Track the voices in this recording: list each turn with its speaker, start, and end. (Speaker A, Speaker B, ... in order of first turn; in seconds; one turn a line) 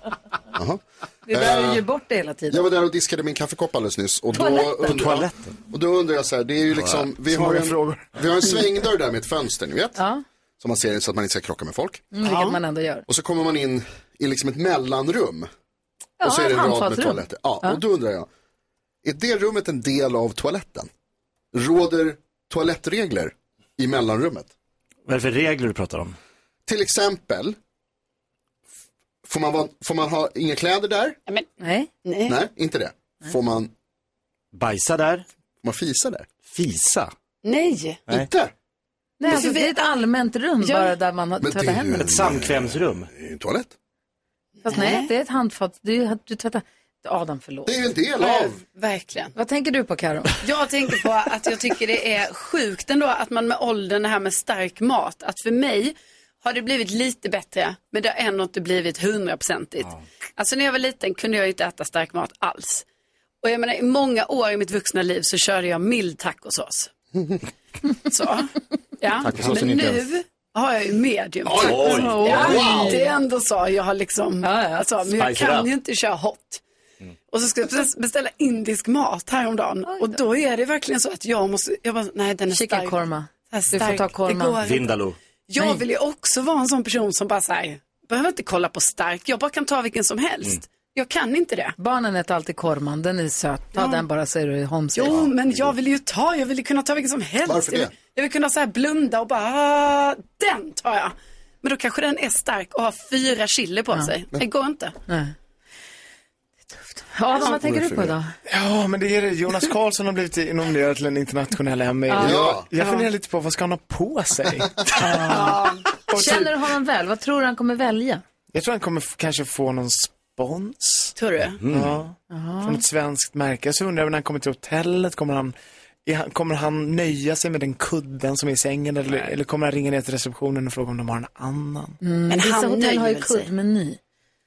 Speaker A: 0.5-1.9
Speaker B: 1.3-2.7
Speaker A: 2.5-10.0
Speaker B: 4.3-4.9
Speaker C: 4.9-5.3
Speaker D: 7.3-8.1
Speaker B: 10.0-10.2
Speaker A: 10.6-12.1
Speaker B: 12.1-13.1
Speaker E: 12.2-12.6
Speaker A: 13.1-15.5
Speaker B: 16.2-17.8
Speaker A: 16.2-18.3
Speaker A: 19.0-20.9
Speaker A: 21.5-24.5
Speaker C: 25.1-26.2
Speaker A: 26.7-27.6
Speaker A: 29.2-31.2
Speaker B: 31.6-31.9
Speaker E: 32.0-32.4
Speaker A: 32.3-33.7
Speaker C: 34.5-35.3
Speaker A: 35.6-36.3
Speaker C: 36.5-37.1
Speaker E: 37.4-38.0
Speaker A: 38.1-38.5
Speaker B: 39.2-42.0
Speaker E: 39.2-39.8
Speaker E: 40.6-40.9
Speaker A: 41.4-43.7
Speaker C: 42.0-43.1
Speaker E: 44.6-45.1
Speaker B: 44.6-47.8
Speaker A: 47.7-48.6
Speaker E: 48.2-49.3
Speaker B: 49.4-50.4
Speaker E: 50.4-62.9
Speaker E: 63.4-66.9
Speaker E: 68.1-76.6
Speaker C: 69.2-70.1
Speaker C: 71.5-73.0
Speaker B: 71.7-73.1
Speaker A: 72.4-72.9
Speaker B: 74.4-74.9
Speaker C: 75.2-75.7
Speaker E: 77.3-83.0
Speaker B: 79.9-80.2
Speaker B: 82.5-84.6
Speaker E: 83.5-91.8
Speaker C: 84.6-85.2
Speaker B: 91.8-95.2
Speaker E: 93.8-94.0
Speaker E: 95.0-105.0
Speaker A: 95.2-95.7
Speaker A: 97.5-97.9
Speaker B: 105.1-105.3
Speaker B: 106.7-108.3
Speaker A: 107.6-108.1
Speaker D: 108.5-116.5
Speaker A: 112.2-112.7
Speaker E: 112.8-113.0
Speaker B: 115.1-115.5
Speaker E: 115.1-115.9
Speaker B: 116.1-118.2
Speaker D: 118.5-121.1
Speaker E: 121.2-121.6
Speaker C: 121.6-122.1
Speaker D: 121.7-125.5
Speaker B: 122.3-122.8
Speaker D: 126.1-132.0
Speaker B: 132.0-134.0
Speaker E: 132.3-133.5